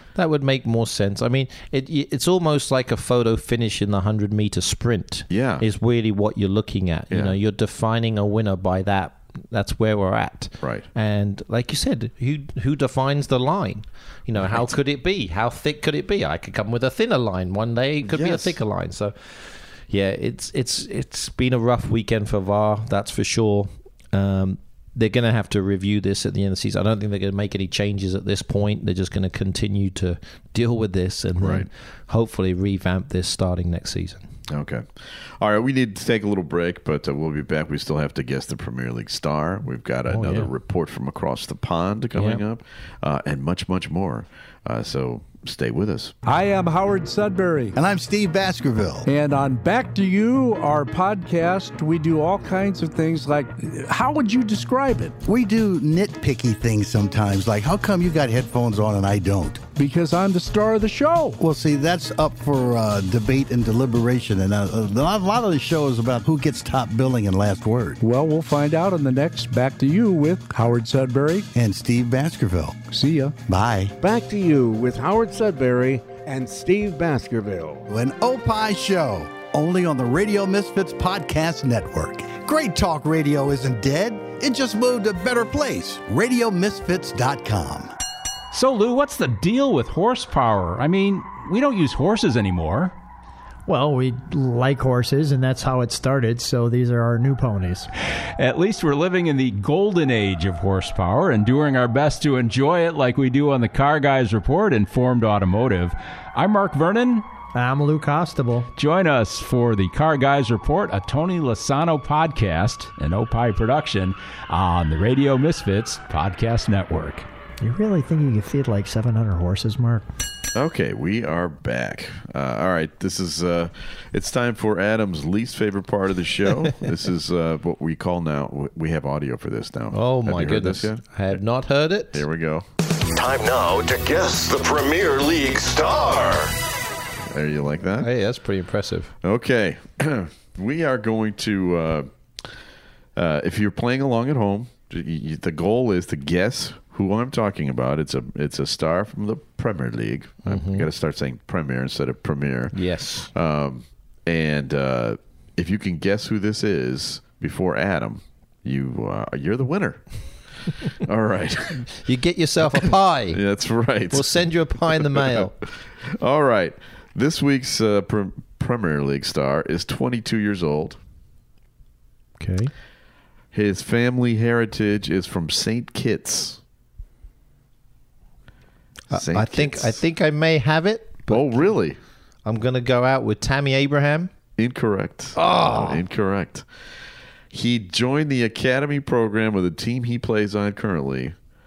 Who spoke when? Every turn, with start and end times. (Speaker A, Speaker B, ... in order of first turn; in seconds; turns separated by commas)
Speaker A: 0.1-34.2, Speaker B: 5.3-5.6, Speaker B: 7.1-7.4, Speaker B: 14.4-14.7, Speaker B: 18.0-18.6, Speaker B: 31.4-31.7, Speaker B: 34.5-46.1, Speaker A: 40.1-40.5, Speaker A: 42.1-42.4, Speaker C: 46.2-47.8, Speaker D: 47.8-49.1, Speaker C: 49.0-55.1, Speaker D: 55.2-59.6, Speaker C: 59.8-61.4, Speaker D: 61.4-68.0, Speaker C: 68.0-71.5, Speaker D: 71.5-72.8, Speaker C: 72.9-73.3, Speaker D: 73.4-73.9, Speaker E: 74.0-77.5, Speaker D: 77.9-87.9, Speaker F: 88.5-92.9, Speaker G: 93.7-97.9, Speaker F: 98.4-107.3, Speaker G: 107.5-108.7, Speaker F: 108.7-117.3, Speaker G: 117.6-120.0, Speaker B: 120.5-131.4, Speaker A: 129.9-132.2, Speaker B: 132.1-132.7, Speaker H: 133.1-136.5, Speaker B: 137.2-138.1, Speaker A: 138.0-139.1, Speaker B: 139.2-142.5, Speaker B: 143.2-152.7, Speaker A: 150.4-150.9, Speaker A: 152.7-153.3, Speaker B: 153.3-160.0, Speaker B: 160.8-161.9, Speaker A: 162.0-163.4, Speaker B: 163.3-171.0, Speaker A: 164.1-165.5, Speaker A: 172.4-172.7, Speaker B: 173.5-176.6, Speaker A: 179.1-181.7, Speaker B: 179.1-180.0, Speaker B: 181.3-182.0, Speaker A: 182.4-184.3, Speaker B: 184.6-186.7, Speaker A: 185.3-186.0, Speaker B: 187.5-191.3